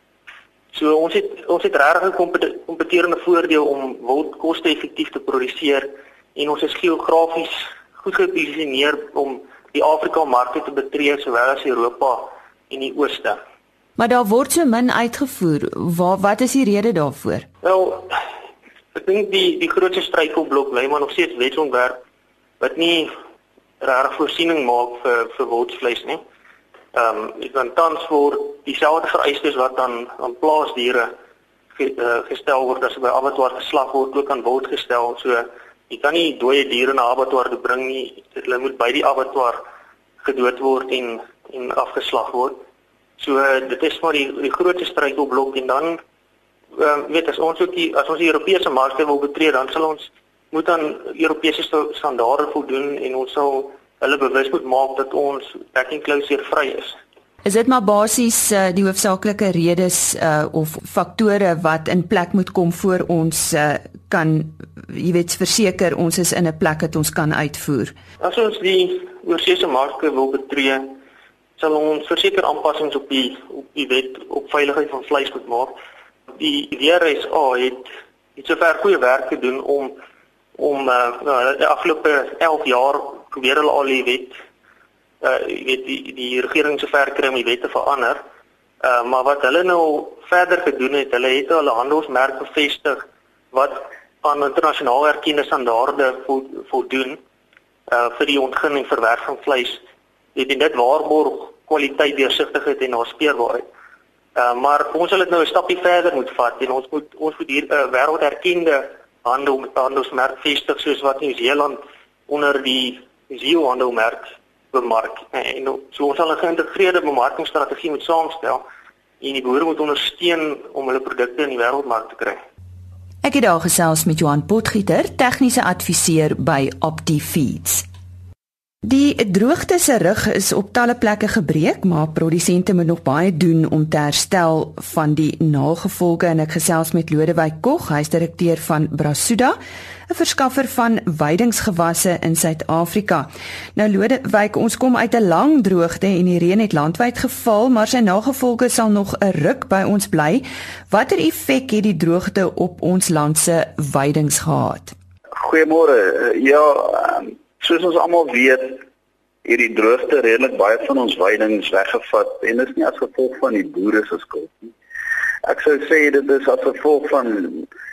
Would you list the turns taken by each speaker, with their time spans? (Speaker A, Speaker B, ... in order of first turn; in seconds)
Speaker A: 0.7-13.4, 17.6-18.2, 18.9-22.0, 22.6-23.1, 23.8-26.2, 26.9-31.1, 31.7-39.6, 40.2-42.6, 43.2-46.0, 46.8-57.0, 68.2-71.0, 71.6-75.8, 76.4-80.0, 80.6-84.4, 85.2-88.2, 88.8-97.2, 97.9-99.8, 100.3-103.7, 104.3-118.6, 119.2-122.4
Speaker B: 14.0-17.4, 57.4-67.9, 123.2-127.8, 128.8-154.9
Speaker C: 155.3-158.8, 159.4-164.7, 165.4-167.7